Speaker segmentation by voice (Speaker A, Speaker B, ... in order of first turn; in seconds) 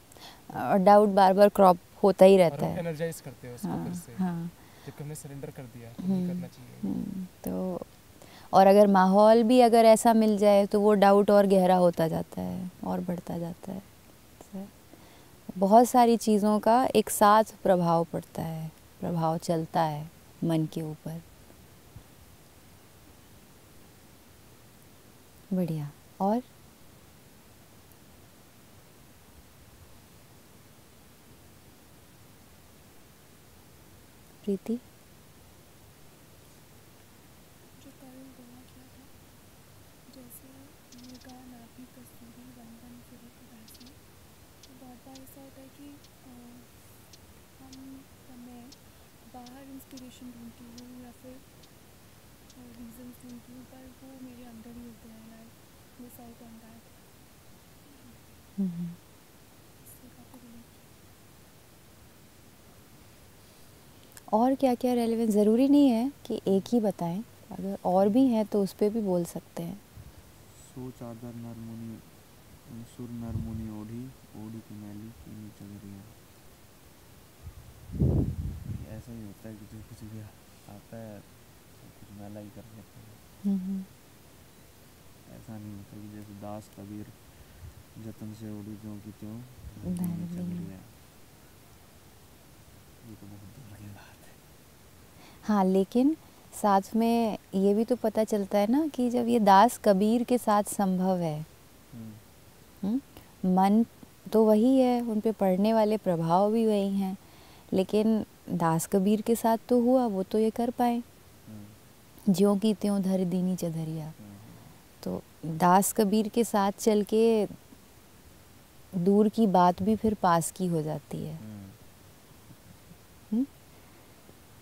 Speaker A: 0.3-2.8, 3.6-4.5, 6.0-7.9, 8.5-13.9, 14.4-14.7, 15.5-21.2, 25.5-26.4, 34.4-34.8, 58.6-59.0, 64.3-69.8, 83.4-83.9, 89.8-90.7, 95.4-101.5, 102.8-107.2, 107.7-111.0, 112.3-114.1, 115.0-117.5, 118.9-121.4
Speaker B: 2.5-6.9
Speaker C: 37.7-39.1, 40.1-44.0, 44.6-46.8, 47.5-51.5, 52.5-57.0, 57.8-58.2, 59.8-60.9
Speaker D: 70.5-76.2, 78.6-83.2, 85.2-91.0, 93.0-94.4, 101.9-102.2, 111.5-111.8, 114.2-114.8, 121.4-121.8